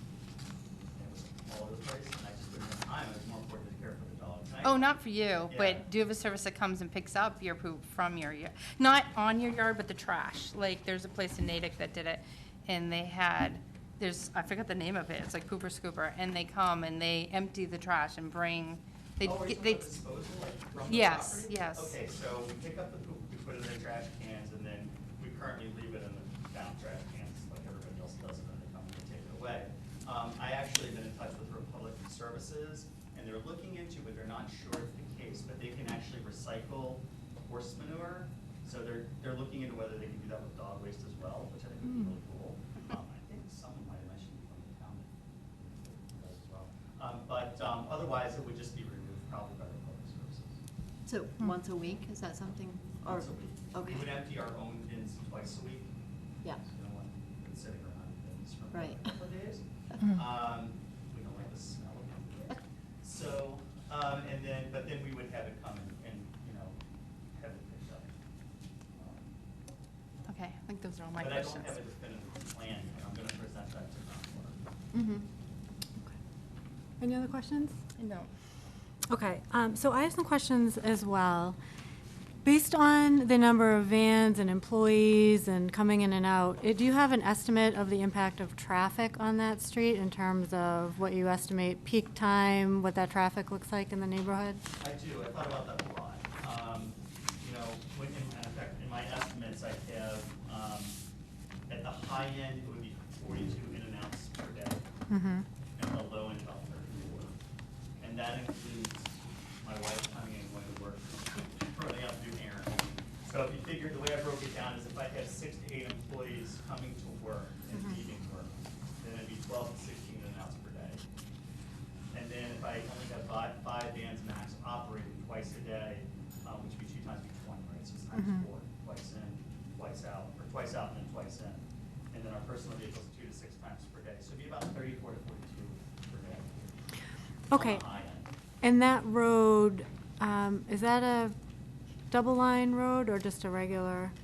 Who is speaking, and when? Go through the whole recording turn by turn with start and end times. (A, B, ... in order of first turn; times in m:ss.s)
0:01.0-0:04.9 A
0:04.6-0:19.9 B
0:05.5-0:05.8 A
0:19.2-0:50.6 A
0:20.8-0:22.0 B
0:51.1-0:54.1 C
0:53.0-0:55.9 A
0:56.6-1:06.8 A
0:58.7-0:59.1 C
1:07.4-1:08.1 A
1:09.0-1:09.3 A
1:10.3-1:11.8 B
1:11.2-1:14.6 A
1:14.9-1:15.2 C
1:17.0-1:17.8 D
1:18.0-1:18.3 B
1:19.1-1:21.6 D
1:22.4-1:34.6 D
1:34.8-1:40.9 A
1:41.7-1:44.8 A
1:45.1-1:45.5 D
1:45.8-1:47.3 A
1:48.0-2:01.0 A
1:57.7-1:58.0 D
2:02.1-2:16.8 A
2:08.1-2:08.5 D
2:17.5-2:17.9 D
2:17.5-2:18.3 A
2:18.6-2:21.4 D
2:22.1-2:24.1 D